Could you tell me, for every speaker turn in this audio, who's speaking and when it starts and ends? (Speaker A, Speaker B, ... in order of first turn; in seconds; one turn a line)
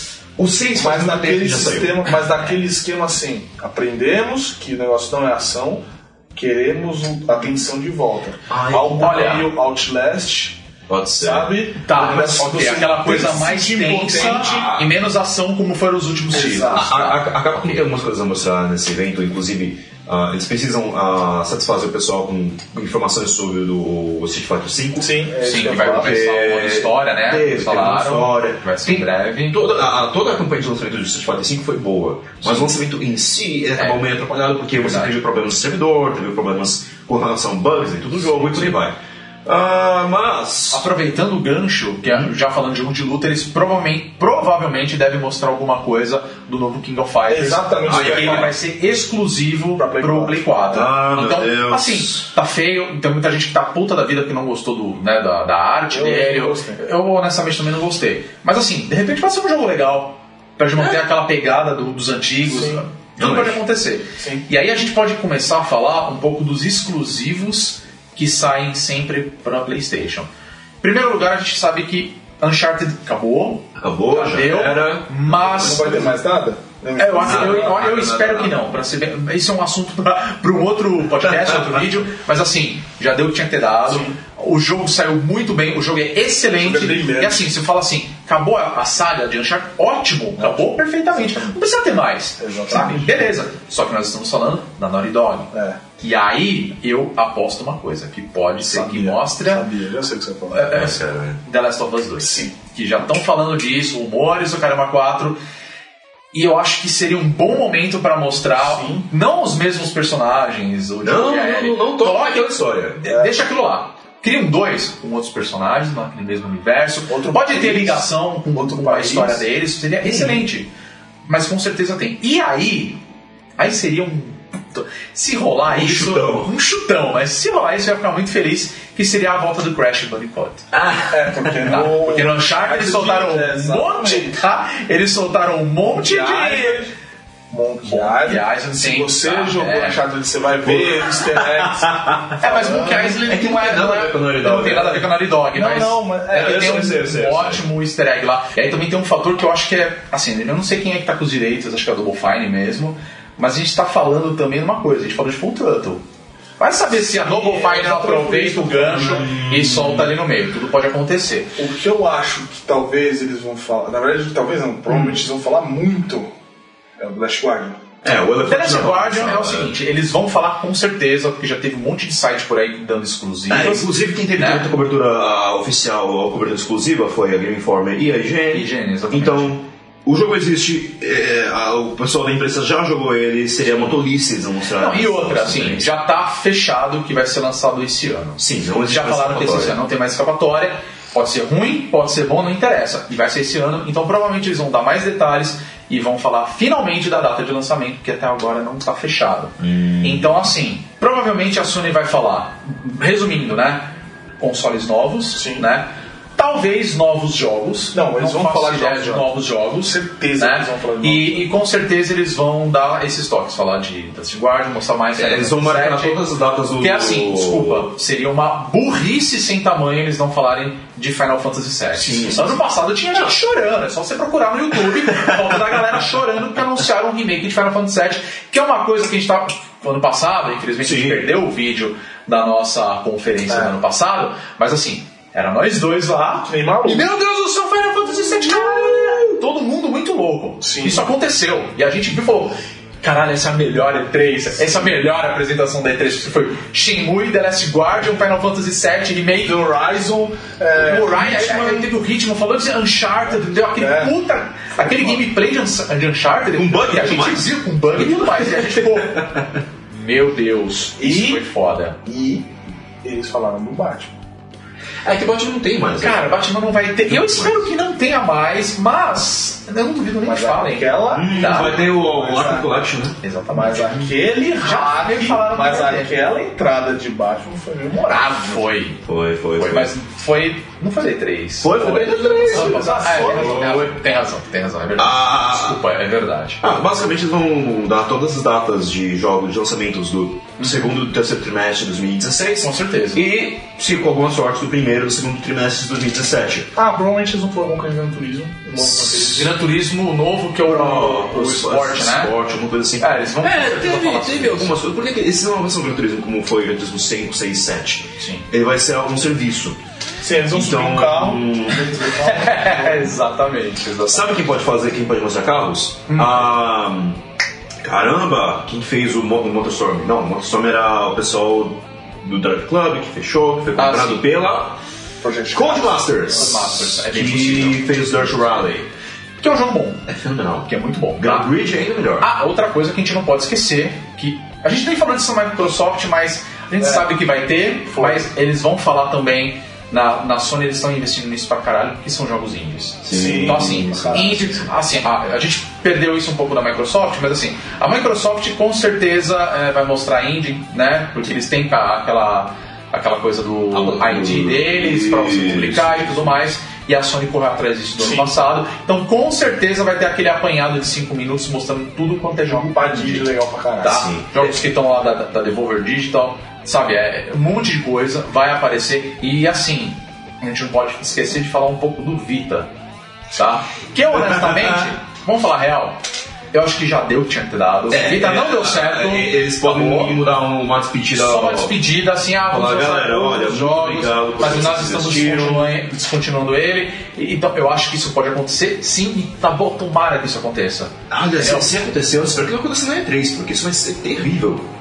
Speaker A: 0.4-2.1
Speaker B: 0.7-5.8
Speaker B: 6.3-10.6
Speaker A: 8.5-9.4
Speaker C: 9.0-9.5
Speaker A: 10.9-12.9
Speaker B: 11.2-14.8
Speaker C: 11.8-17.9
Speaker A: 14.3-14.9
Speaker B: 16.3-16.9
Speaker A: 16.3-40.9
Speaker B: 25.0-26.2
Speaker C: 25.4-29.6
Speaker C: 33.8-34.1
Speaker C: 34.7-35.2
Speaker C: 40.7-70.3
Speaker A: 42.1-42.3
Speaker B: 47.3-48.6
Speaker A: 47.9-48.5
Speaker B: 49.8-50.5
Speaker A: 50.7-52.3
Speaker B: 55.9-56.8
Speaker B: 62.4-62.8
Speaker A: 63.2-63.6
Speaker B: 64.2-64.5
Speaker C: 70.8-76.1
Speaker A: 73.8-76.1
Speaker B: 75.5-77.8
Speaker C: 77.0-99.6
Speaker A: 77.2-78.7
Speaker B: 83.8-84.1
Speaker B: 86.6-87.5
Speaker B: 90.4-91.5
Speaker B: 92.4-93.3
Speaker B: 95.5-95.8
Speaker B: 98.6-100.7
Speaker C: 100.5-105.4
Speaker A: 100.7-101.4
Speaker B: 102.2-102.5
Speaker C: 106.3-120.7
Speaker B: 108.5-109.1
Speaker A: 111.0-113.0
Speaker B: 113.0-113.4
Speaker B: 117.1-119.5
Speaker A: 120.0-120.4
Speaker C: 121.2-123.0
Speaker C: 123.6-130.7
Speaker A: 125.7-126.5
Speaker A: 130.7-131.7
Speaker B: 131.1-134.4
Speaker C: 131.7-136.8
Speaker B: 135.9-136.9
Speaker B: 137.5-143.2
Speaker C: 137.8-140.0
Speaker A: 140.6-145.1
Speaker C: 142.4-156.0
Speaker B: 145.5-147.1
Speaker A: 146.3-147.6
Speaker C: 156.6-161.6
Speaker B: 156.9-159.3
Speaker A: 159.1-160.1
Speaker B: 161.6-166.3
Speaker B: 167.0-167.8
Speaker A: 168.0-169.8
Speaker C: 168.4-174.7
Speaker A: 173.5-185.9
Speaker C: 178.5-179.5
Speaker C: 184.7-216.2
Speaker A: 188.4-189.8
Speaker A: 199.6-200.3
Speaker B: 205.3-205.7
Speaker B: 207.9-211.5
Speaker A: 215.1-217.9
Speaker C: 216.8-249.6
Speaker A: 221.9-223.3
Speaker A: 230.8-231.3
Speaker B: 233.5-233.7
Speaker B: 236.4-237.1
Speaker B: 240.6-241.1
Speaker B: 244.6-244.9
Speaker B: 249.4-251.9
Speaker C: 250.8-259.3
Speaker B: 253.7-254.2
Speaker B: 254.8-255.2
Speaker A: 256.5-259.5
Speaker C: 259.9-262.0
Speaker B: 261.0-261.4
Speaker B: 262.0-264.1
Speaker A: 265.0-266.4
Speaker C: 266.0-271.8
Speaker A: 267.1-267.7
Speaker B: 270.2-272.7
Speaker A: 271.1-273.2
Speaker C: 273.2-276.2
Speaker B: 273.5-278.6
Speaker C: 278.0-279.0
Speaker A: 279.0-279.9
Speaker C: 279.6-286.6
Speaker A: 281.6-283.9
Speaker B: 282.3-283.8
Speaker A: 284.9-285.8
Speaker A: 286.6-296.7
Speaker C: 290.6-291.0
Speaker C: 292.6-293.2
Speaker B: 296.7-299.5
Speaker C: 298.8-302.3
Speaker A: 300.7-309.8
Speaker C: 303.0-304.7
Speaker C: 308.2-308.4
Speaker B: 310.2-313.1
Speaker A: 310.5-311.9
Speaker C: 312.2-314.4
Speaker A: 314.0-317.2
Speaker C: 316.1-316.6
Speaker A: 317.8-324.8
Speaker C: 323.8-324.3
Speaker B: 325.2-326.5
Speaker A: 325.5-328.9
Speaker C: 326.2-328.1
Speaker C: 329.4-330.1
Speaker A: 330.1-332.3
Speaker C: 330.7-331.5
Speaker C: 332.2-363.3
Speaker B: 336.8-337.1
Speaker B: 337.9-338.3
Speaker A: 343.0-344.4
Speaker B: 343.1-344.7
Speaker A: 353.7-356.4
Speaker B: 358.0-358.3
Speaker B: 362.4-364.0
Speaker C: 363.8-372.7
Speaker A: 363.8-364.4
Speaker C: 373.3-376.0
Speaker A: 374.1-374.9
Speaker C: 376.5-380.2
Speaker A: 377.9-381.7
Speaker C: 381.1-391.7
Speaker A: 382.5-385.7
Speaker A: 391.1-394.7